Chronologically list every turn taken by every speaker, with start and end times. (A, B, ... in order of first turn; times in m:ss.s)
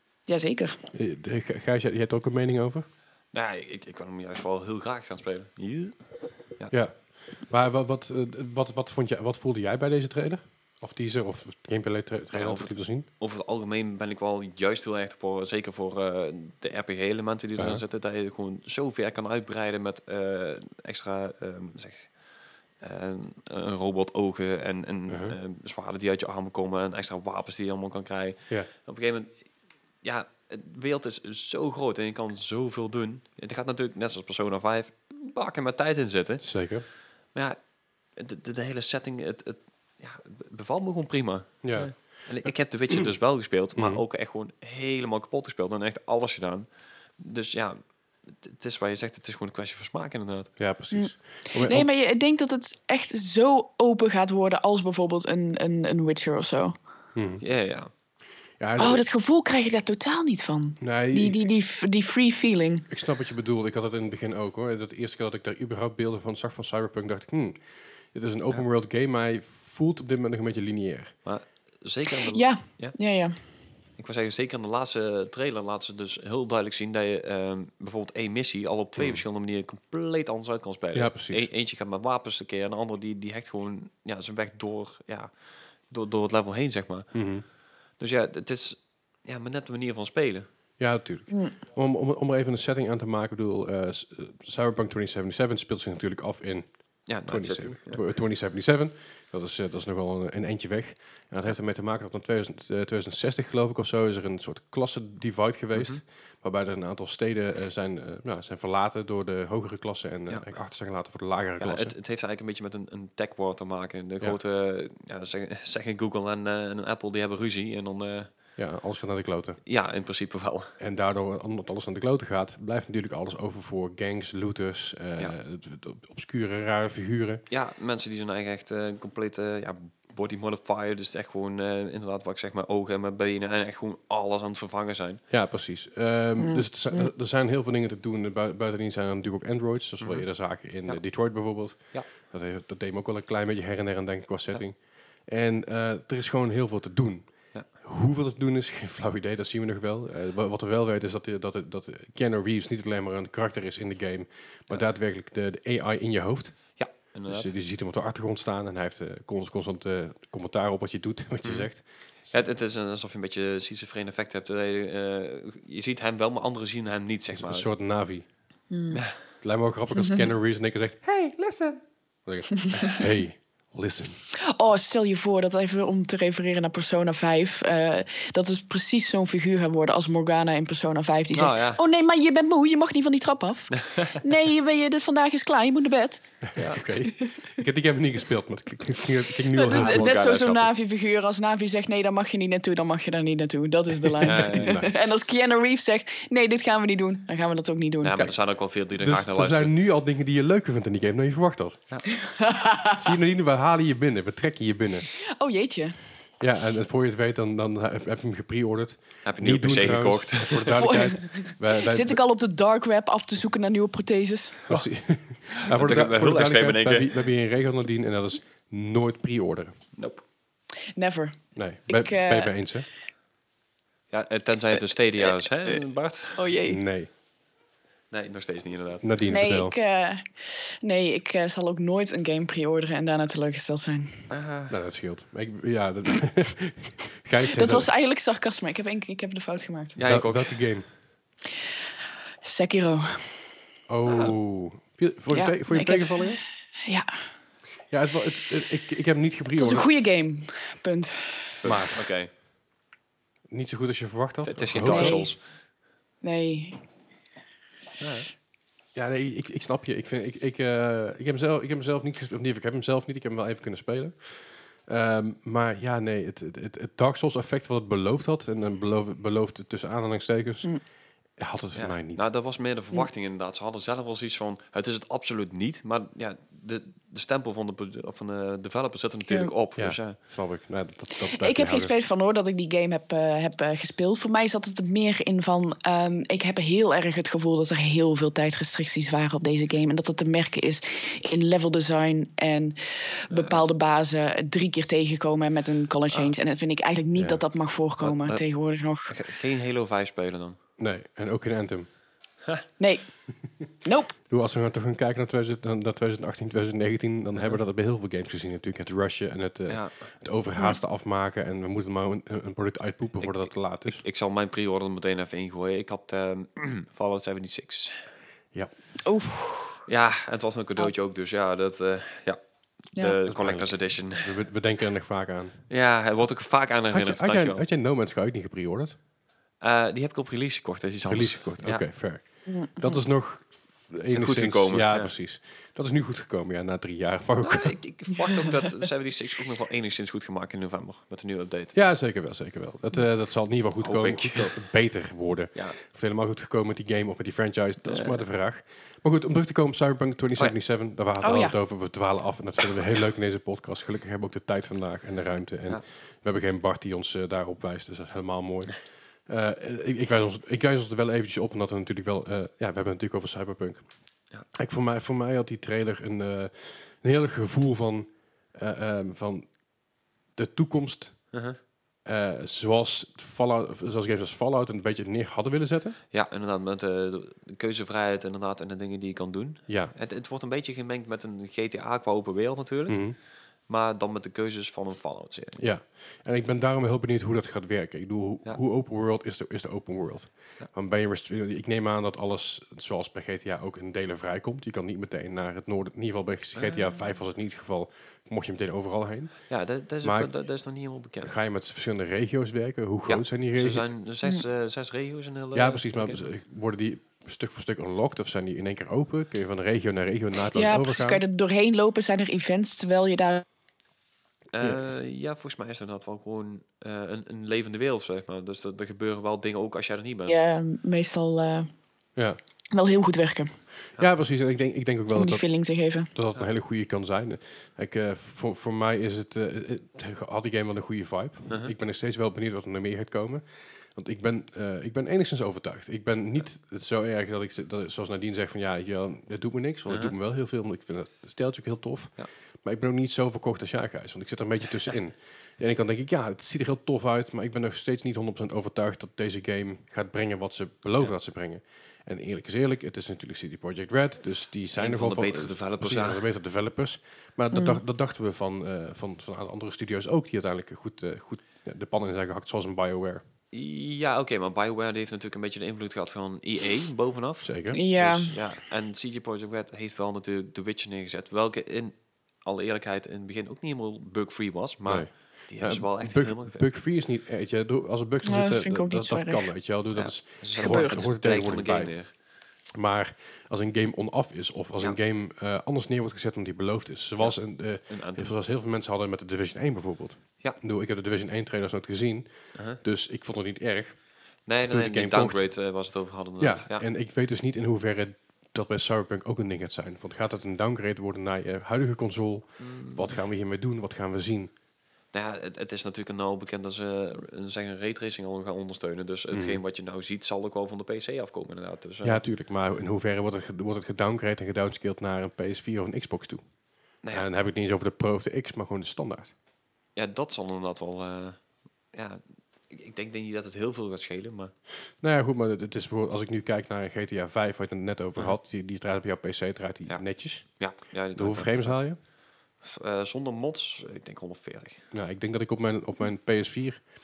0:00.3-0:00.8 A
0:00.9-0:02.9 B
0:03.3-0:06.7 C
0:06.7-0:13.1 B
0:12.3-0:22.2 C
0:17.6-0:17.8 B
0:22.8-0:29.5 C
0:25.1-0:25.4 B
0:30.0-0:36.5 C
0:36.4-0:36.8 B
0:37.3-0:37.6 C
0:38.1-0:50.5 C
0:41.6-0:42.2 B
0:43.7-0:44.0 B
0:50.6-0:51.9 B
0:50.9-0:56.7 A
0:57.1-0:57.4 B
0:57.4-0:57.9 C
0:58.6-0:59.0 B
0:58.8-1:02.9 A
1:00.8-1:01.4 B
1:02.9-1:07.6 B
1:08.1-1:11.1 B
1:11.2-1:13.0 C
1:12.3-1:13.4 A
1:14.0-1:27.2 C
1:19.0-1:19.2 B
1:20.9-1:21.5 B
1:27.1-1:27.4 B
1:28.0-1:30.5 C
1:30.8-1:51.9 B
1:37.1-1:38.1 C
1:45.7-1:46.0 C
1:51.6-1:58.3 C
1:58.6-1:59.6 B
1:59.6-2:00.7 C
2:00.8-2:07.4 B
2:07.5-2:15.2 C
2:15.3-2:41.8 B
2:16.4-2:17.1 A
2:20.0-2:20.3 C
2:36.8-2:37.5 C
2:41.4-2:41.7 C
2:42.3-2:47.7 C
2:47.3-2:48.3 B
2:48.7-2:49.0 A
2:48.9-2:49.2 C
2:49.4-2:54.2 B
2:50.0-2:50.3 A
2:54.4-3:06.3 A
3:01.3-3:01.8 C
3:03.7-3:04.2 C
3:06.5-3:10.1 B
3:06.6-3:06.8 C
3:09.5-3:18.3 A
3:09.7-3:10.7 C
3:14.1-3:15.1 B
3:14.2-3:14.9 C
3:18.0-3:19.7 C
3:19.0-3:21.8 B
3:22.1-3:23.2 A
3:23.0-3:25.1 B
3:25.1-3:26.1 A
3:26.4-3:32.2 B
3:29.2-3:30.8 C
3:30.7-3:34.6 A
3:34.7-3:39.8 B
3:35.5-3:37.3 C
3:39.9-3:40.2 C
3:40.9-3:42.5 A
3:41.5-3:42.8 B
3:44.1-3:46.5 C
3:46.3-3:46.8 A
3:46.6-3:47.1 B
3:48.1-3:49.0 C
3:49.0-3:49.7 B
3:49.3-3:54.3 A
3:54.3-3:54.7 C
3:54.7-3:57.9 B
3:57.5-4:00.0 A
4:00.0-4:00.6 C
4:00.0-4:00.9 B
4:02.4-4:03.5 A
4:03.9-4:06.4 B
4:04.1-4:04.3 C
4:05.3-4:07.3 A
4:07.9-4:09.9 B
4:09.6-4:11.8 A
4:11.6-4:12.3 C
4:11.6-4:12.0 B
4:13.5-4:15.3 B
4:14.4-4:15.4 C
4:14.8-4:15.4 A
4:16.2-4:16.8 A
4:18.0-4:18.3 C
4:18.9-4:30.7 B
4:31.4-4:32.2 B
4:31.7-4:40.2 C
4:39.8-4:41.9 B
4:41.2-4:59.2 A
4:53.3-4:53.6 C
4:57.2-4:57.4 B
4:58.0-4:58.4 C
4:59.1-5:00.6 C
5:00.8-5:01.9 B
5:02.8-5:03.2 A
5:03.8-5:04.1 A
5:04.3-5:14.0 B
5:09.7-5:10.1 C
5:13.2-5:18.0 C
5:19.0-5:19.8 A
5:19.9-5:24.4 C
5:23.2-5:25.6 B
5:25.7-5:27.6 C
5:26.9-5:28.9 B
5:29.6-5:31.8 C
5:31.0-5:37.8 B
5:32.4-5:33.0 A
5:34.1-5:35.1 C
5:37.4-5:41.8 C
5:41.7-6:03.8 B
5:43.8-5:44.6 C
5:47.8-5:48.2 C
5:51.2-5:51.5 A
6:04.5-6:09.5 B
6:10.4-6:11.2 B
6:11.3-6:11.6 C
6:12.0-6:16.0 B
6:16.1-6:23.1 C
6:19.7-6:19.9 B
6:22.9-6:23.2 B
6:23.6-6:25.6 C
6:25.6-6:39.5 B
6:36.6-6:36.9 C
6:39.5-6:41.3 C
6:40.0-6:40.3 B
6:41.2-6:43.9 B
6:43.0-6:46.2 C
6:45.5-6:51.2 B
6:50.5-6:53.4 A
6:54.5-7:00.4 C
7:00.3-7:01.7 A
7:02.7-7:03.5 A
7:04.0-7:05.4 B
7:05.1-7:06.1 A
7:06.1-7:13.4 B
7:13.9-7:43.2 B
7:19.9-7:20.1 C
7:34.7-7:36.2 C
7:37.5-7:37.8 A
7:43.5-7:56.6 C
7:47.4-7:47.8 B
7:47.7-7:48.4 A
7:54.8-8:01.9 B
7:58.2-7:59.5 A
7:59.9-8:02.1 C
8:00.6-8:01.0 A
8:02.7-8:14.0 B
8:07.2-8:08.3 C
8:12.5-8:12.8 C
8:14.4-8:16.8 C
8:14.7-8:15.5 B
8:16.4-8:24.5 B
8:22.6-8:23.2 C
8:25.1-8:32.2 C
8:29.3-8:29.6 B
8:32.0-8:36.4 B
8:37.1-8:39.3 B
8:39.9-8:44.5 C
8:45.0-8:52.0 B
8:49.9-8:52.0 C
8:52.6-8:54.8 C
8:54.9-8:56.9 B